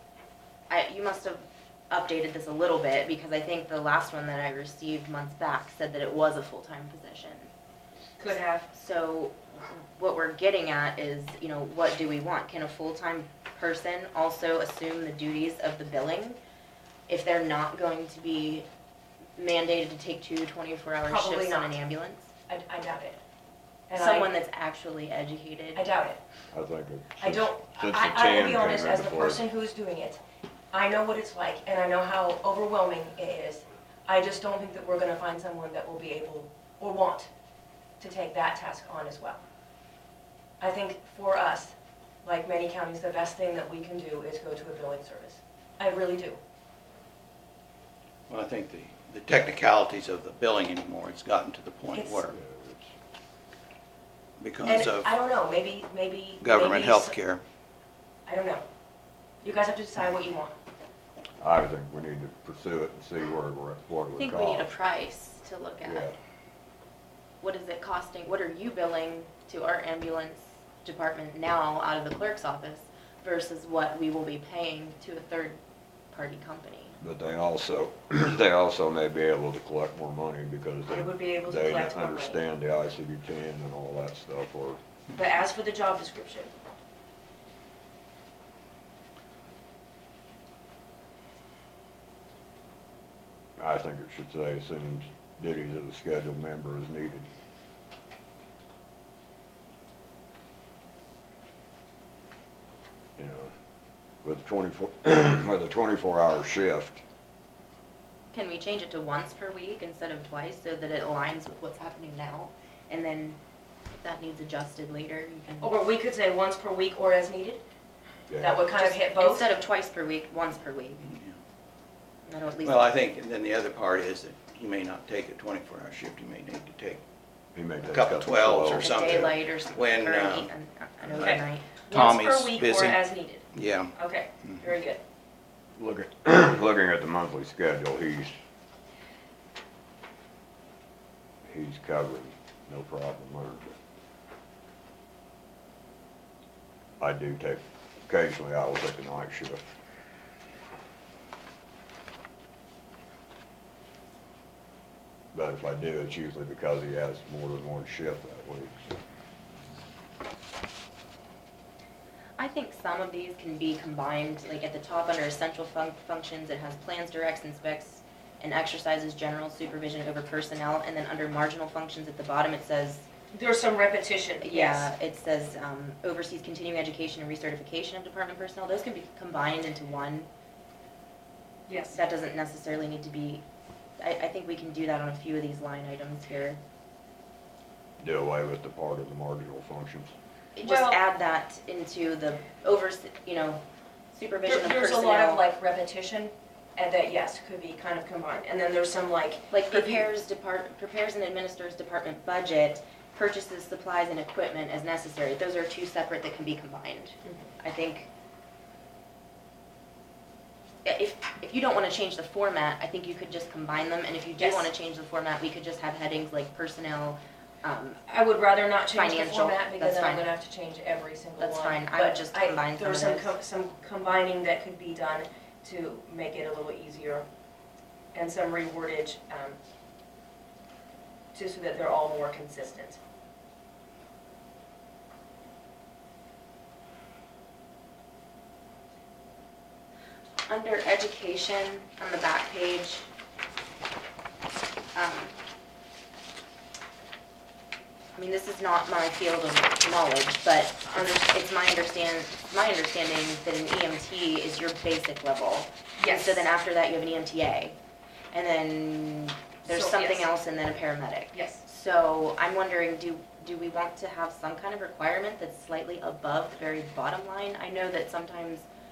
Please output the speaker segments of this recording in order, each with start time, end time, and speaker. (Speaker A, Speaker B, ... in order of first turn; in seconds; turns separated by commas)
Speaker A: 0.7-7.5, Speaker B: 8.2-8.7, Speaker A: 8.7-16.4, Speaker A: 17.1-18.7, Speaker A: 19.4-22.3, Speaker B: 21.0-21.8, Speaker B: 22.5-23.2, Speaker B: 23.9-24.3, Speaker A: 23.9-25.8, Speaker B: 25.7-26.2, Speaker C: 26.5-29.4, Speaker B: 27.2-30.2, Speaker B: 30.7-37.3, Speaker B: 38.0-39.4, Speaker B: 40.6-41.7, Speaker B: 42.2-46.4, Speaker D: 48.3-52.4, Speaker B: 51.9-52.3, Speaker C: 52.3-52.9, Speaker D: 54.4-55.1, Speaker B: 54.6-57.1, Speaker D: 56.4-57.4, Speaker B: 58.2-58.6, Speaker B: 59.4-60.5, Speaker C: 61.4-64.7, Speaker A: 64.2-66.1, Speaker C: 65.8-66.1, Speaker A: 67.4-75.6, Speaker A: 76.1-77.0, Speaker C: 77.0-84.8, Speaker B: 80.9-82.4, Speaker B: 85.1-86.5, Speaker C: 93.6-97.3, Speaker C: 103.2-103.5, Speaker C: 104.2-107.0, Speaker A: 108.3-113.4, Speaker A: 113.9-115.8, Speaker B: 115.6-117.6, Speaker C: 118.3-118.5, Speaker B: 118.4-119.5, Speaker A: 118.7-121.1, Speaker D: 121.0-121.3, Speaker A: 122.2-122.9, Speaker D: 122.6-127.0, Speaker C: 127.5-129.3, Speaker D: 127.8-130.5, Speaker A: 128.8-131.7, Speaker B: 131.2-135.0, Speaker D: 131.9-133.0, Speaker D: 133.5-133.9, Speaker C: 135.8-138.4, Speaker C: 141.4-143.8, Speaker C: 147.0-149.7, Speaker C: 155.3-158.8, Speaker A: 162.4-173.1, Speaker B: 173.3-174.9, Speaker A: 174.4-180.3, Speaker B: 181.7-182.0, Speaker A: 181.9-183.4, Speaker A: 184.0-186.6, Speaker C: 188.0-190.1, Speaker A: 190.6-195.4, Speaker B: 190.6-191.0, Speaker B: 194.4-200.1, Speaker A: 199.5-208.1, Speaker A: 210.8-218.0, Speaker B: 214.4-214.7, Speaker B: 218.1-227.2, Speaker A: 218.9-220.3, Speaker A: 221.4-223.3, Speaker B: 228.1-229.6, Speaker B: 231.3-233.0, Speaker A: 240.5-243.1, Speaker A: 244.9-245.3, Speaker A: 248.1-257.8, Speaker B: 256.0-256.5, Speaker A: 258.3-268.7, Speaker B: 259.7-260.3, Speaker B: 261.3-261.6